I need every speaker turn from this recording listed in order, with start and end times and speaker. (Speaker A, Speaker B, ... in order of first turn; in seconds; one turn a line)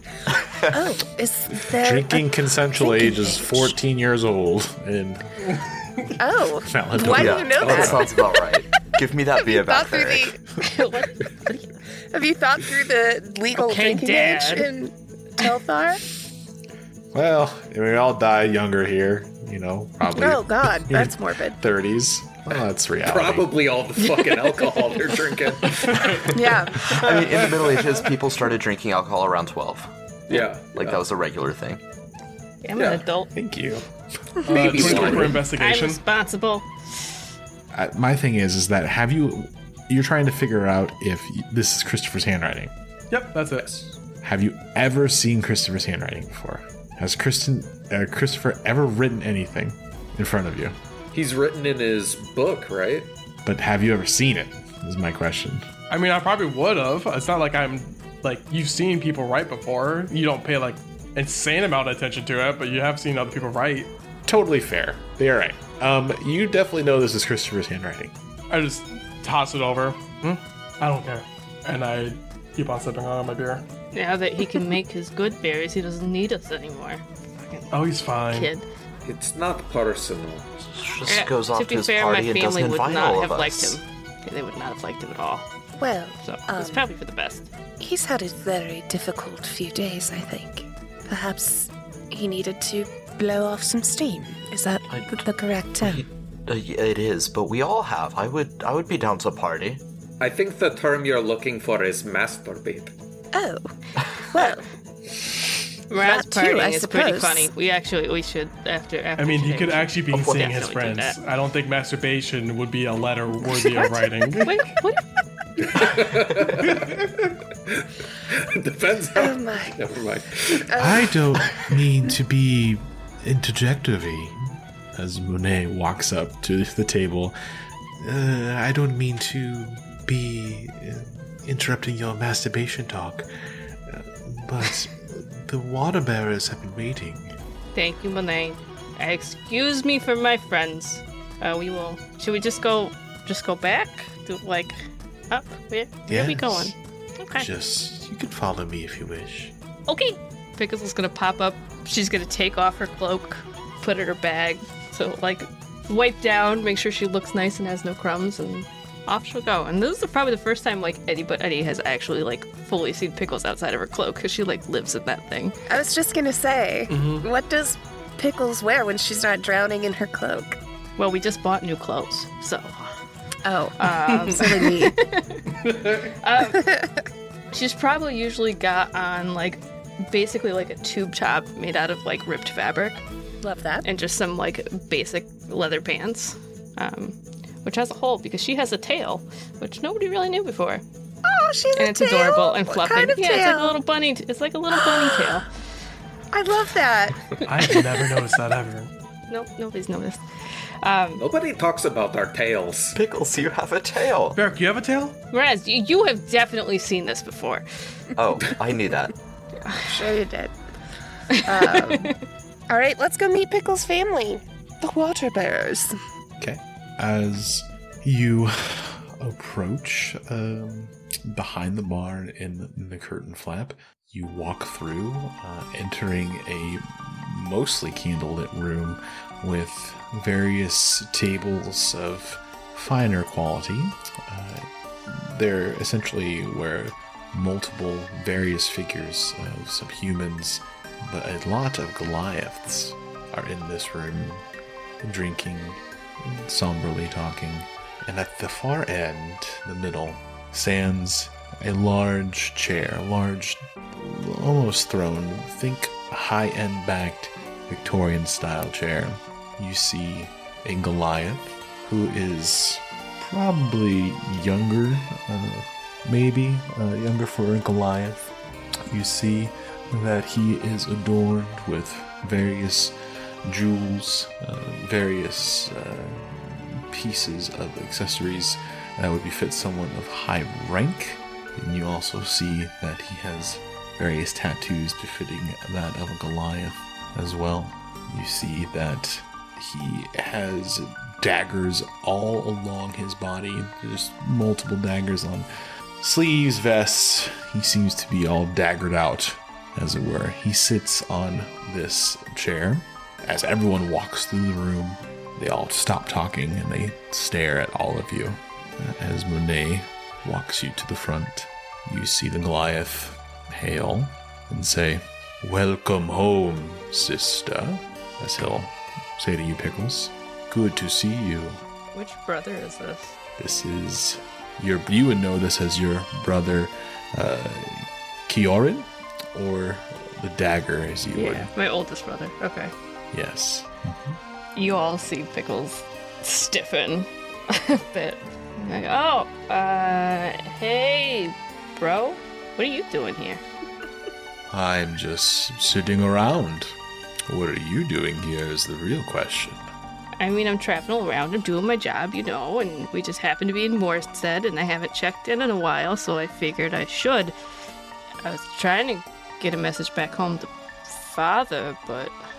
Speaker A: 0.4-0.8
Speaker B: 0.7-3.8
Speaker C: 1.8-5.7
Speaker B: 6.2-8.3
Speaker C: 6.6-8.1
Speaker A: 7.1-10.4
Speaker B: 9.4-10.7
Speaker D: 10.6-11.7
Speaker B: 12.1-16.0
Speaker D: 13.6-14.7
Speaker C: 17.1-23.5
Speaker B: 20.1-21.6
Speaker E: 23.1-26.3
Speaker F: 25.9-26.2
Speaker B: 26.3-26.9
Speaker A: 26.9-29.9
Speaker E: 30.3-31.0
Speaker A: 30.7-31.8
Speaker D: 32.6-33.3
Speaker E: 32.8-33.0
Speaker C: 33.4-33.9
Speaker F: 34.5-36.0
Speaker E: 34.5-35.4
Speaker D: 34.8-37.1
Speaker C: 37.7-42.7
Speaker F: 43.1-43.7
Speaker E: 43.6-43.9
Speaker C: 44.2-50.8
Speaker E: 51.1-53.1
Speaker C: 53.5-55.7
Speaker F: 55.9-63.9
Speaker C: 64.3-68.1
Speaker F: 68.5-73.7
Speaker D: 73.9-78.7
Speaker F: 77.7-78.5
Speaker E: 79.0-80.5
Speaker A: 80.6-83.8
Speaker D: 81.1-85.5
Speaker B: 85.8-86.8
Speaker D: 86.2-87.5
Speaker B: 87.8-96.0
Speaker A: 94.9-95.3
Speaker A: 95.8-99.8
Speaker E: 100.2-102.9
Speaker B: 103.3-103.6
Speaker B: 104.3-104.7
Speaker D: 105.9-111.2
Speaker B: 105.9-107.5
Speaker F: 109.2-114.7
Speaker D: 114.4-115.0
Speaker E: 115.7-117.1
Speaker E: 117.7-120.9
Speaker B: 119.2-119.8
Speaker B: 120.7-121.0
Speaker C: 120.8-127.3
Speaker C: 128.0-133.3
Speaker C: 133.9-137.3
Speaker D: 137.8-147.5
Speaker C: 146.1-146.8
Speaker C: 147.3-149.5
Speaker D: 149.9-165.6
Speaker B: 165.7-170.6
Speaker F: 166.9-167.3
Speaker D: 171.0-172.9
Speaker B: 173.4-174.9
Speaker D: 173.8-175.4
Speaker F: 175.6-176.1
Speaker D: 176.2-176.6
Speaker B: 176.6-176.9
Speaker D: 177.5-183.0
Speaker B: 183.4-183.9
Speaker D: 183.8-190.8
Speaker B: 191.3-193.8
Speaker D: 191.8-195.5
Speaker B: 194.7-195.4
Speaker B: 196.3-197.8
Speaker F: 197.4-198.9
Speaker D: 199.3-200.2
Speaker D: 200.8-201.2
Speaker E: 201.2-203.0
Speaker A: 202.9-204.4
Speaker F: 204.3-205.2
Speaker D: 205.3-207.7
Speaker A: 208.2-209.1
Speaker B: 209.8-210.5
Speaker D: 211.3-212.1
Speaker B: 211.4-212.1
Speaker B: 212.7-215.9
Speaker C: 216.4-244.5
Speaker C: 245.0-268.4
Speaker C: 268.9-295.5
Speaker C: 296.0-321.6
Speaker D: 321.9-323.2
Speaker C: 323.4-331.5
Speaker D: 331.1-332.7
Speaker C: 333.1-334.2
Speaker D: 334.6-343.4
Speaker C: 344.5-346.8
Speaker C: 347.3-349.7
Speaker D: 350.2-357.4
Speaker D: 358.2-362.2